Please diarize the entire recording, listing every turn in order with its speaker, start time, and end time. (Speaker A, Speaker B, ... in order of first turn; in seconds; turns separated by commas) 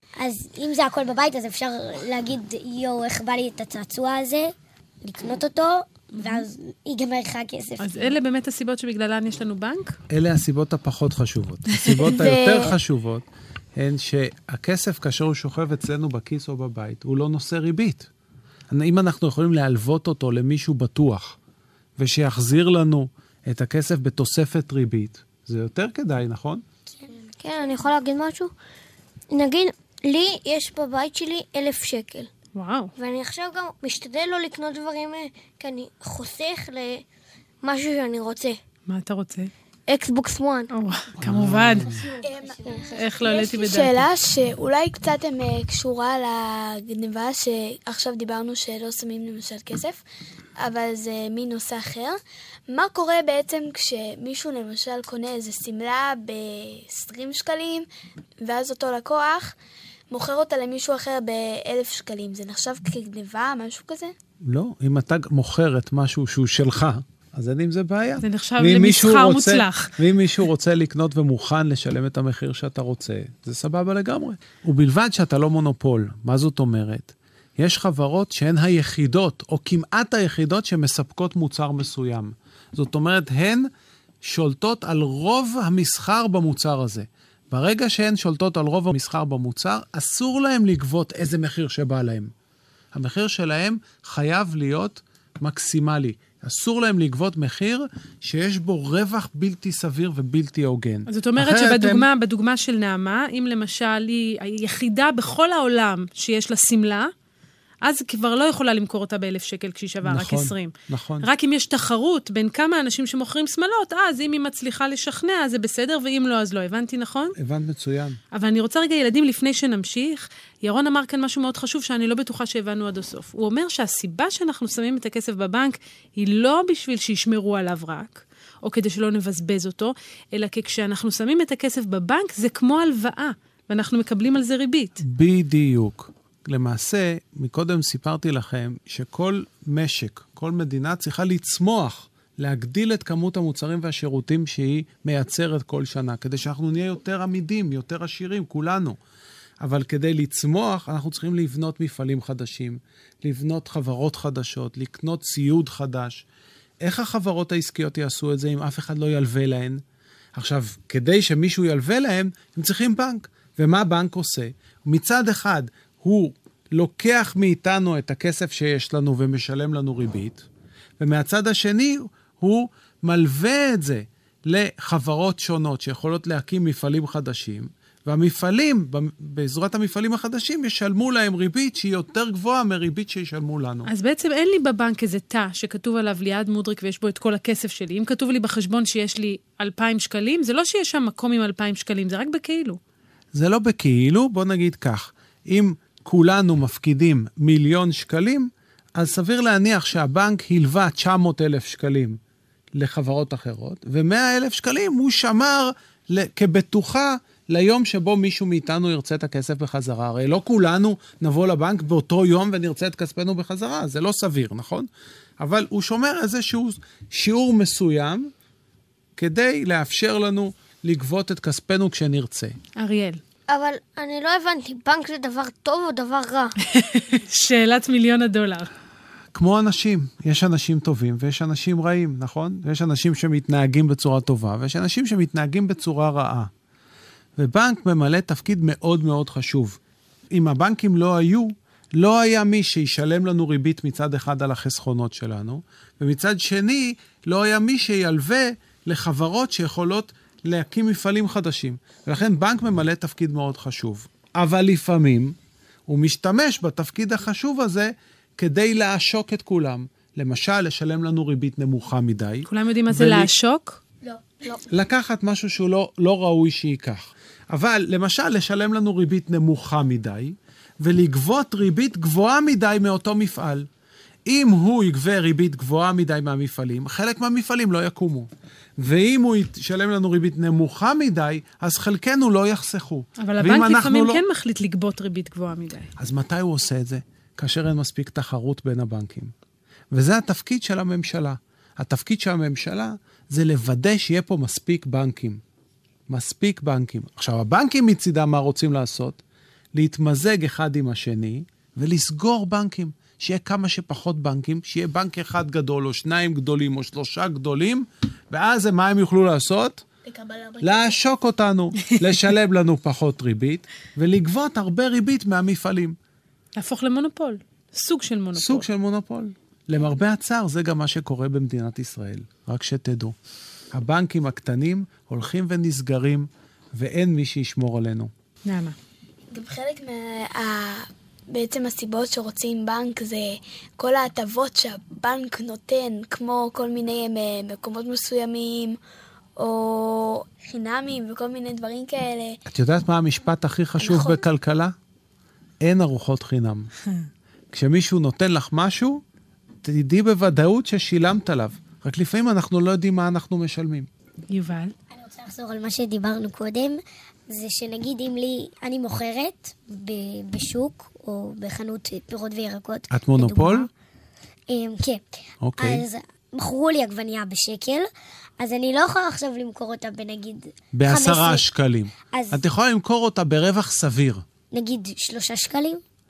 Speaker A: 0.2-8.1, Speaker B: 6.2-6.5, Speaker B: 7.8-9.9, Speaker C: 10.1-18.1, Speaker D: 12.2-12.7, Speaker C: 18.7-21.4, Speaker C: 22.0-26.6, Speaker E: 27.4-28.5, Speaker E: 29.3-32.3, Speaker B: 32.5-32.9, Speaker E: 33.0-37.0, Speaker E: 37.6-38.6, Speaker B: 38.9-39.5, Speaker E: 39.9-40.7, Speaker B: 40.7-42.0, Speaker C: 41.2-41.9, Speaker D: 42.2-50.0, Speaker A: 42.3-43.1, Speaker B: 43.0-44.0, Speaker D: 50.6-57.9, Speaker D: 58.4-59.5, Speaker D: 60.1-64.1, Speaker C: 64.4-83.7, Speaker B: 68.2-69.9, Speaker C: 84.2-92.3, Speaker C: 92.9-102.1, Speaker B: 101.1-107.1, Speaker B: 107.8-117.3, Speaker C: 110.0-111.3, Speaker C: 117.4-118.2, Speaker B: 118.3-135.0, Speaker C: 135.0-149.0, Speaker C: 149.6-156.2, Speaker C: 156.8-159.8, Speaker C: 160.3-170.4, Speaker C: 171.0-183.9, Speaker B: 183.9-192.8, Speaker C: 193.3-202.2, Speaker C: 202.7-214.9, Speaker C: 215.4-218.3, Speaker C: 219.2-222.6, Speaker B: 222.8-223.2, Speaker E: 223.5-226.5, Speaker B: 226.7-228.7, Speaker C: 229.3-236.5, Speaker C: 237.4-239.8, Speaker C: 240.3-255.3, Speaker C: 255.9-263.3, Speaker B: 262.5-263.8, Speaker C: 264.7-273.7, Speaker C: 274.2-278.3, Speaker C: 278.8-284.2, Speaker B: 283.2-285.9, Speaker C: 286.0-289.3, Speaker C: 289.9-295.4, Speaker C: 296.1-299.2, Speaker C: 299.7-309.8, Speaker D: 310.1-311.0, Speaker C: 310.6-316.0, Speaker B: 316.6-318.7, Speaker C: 318.3-323.1, Speaker C: 323.7-328.1, Speaker B: 328.5-328.8, Speaker D: 329.3-338.8, Speaker D: 339.4-342.4, Speaker C: 342.5-344.7, Speaker D: 343.8-344.2, Speaker C: 345.6-346.7, Speaker C: 347.5-349.0, Speaker C: 349.6-353.9, Speaker B: 354.3-354.7, Speaker A: 354.9-363.7, Speaker C: 362.9-363.7, Speaker A: 364.5-365.0, Speaker C: 365.4-365.8, Speaker A: 365.6-367.9, Speaker A: 368.4-371.4, Speaker C: 370.7-374.2, Speaker A: 372.0-372.4, Speaker A: 374.5-375.8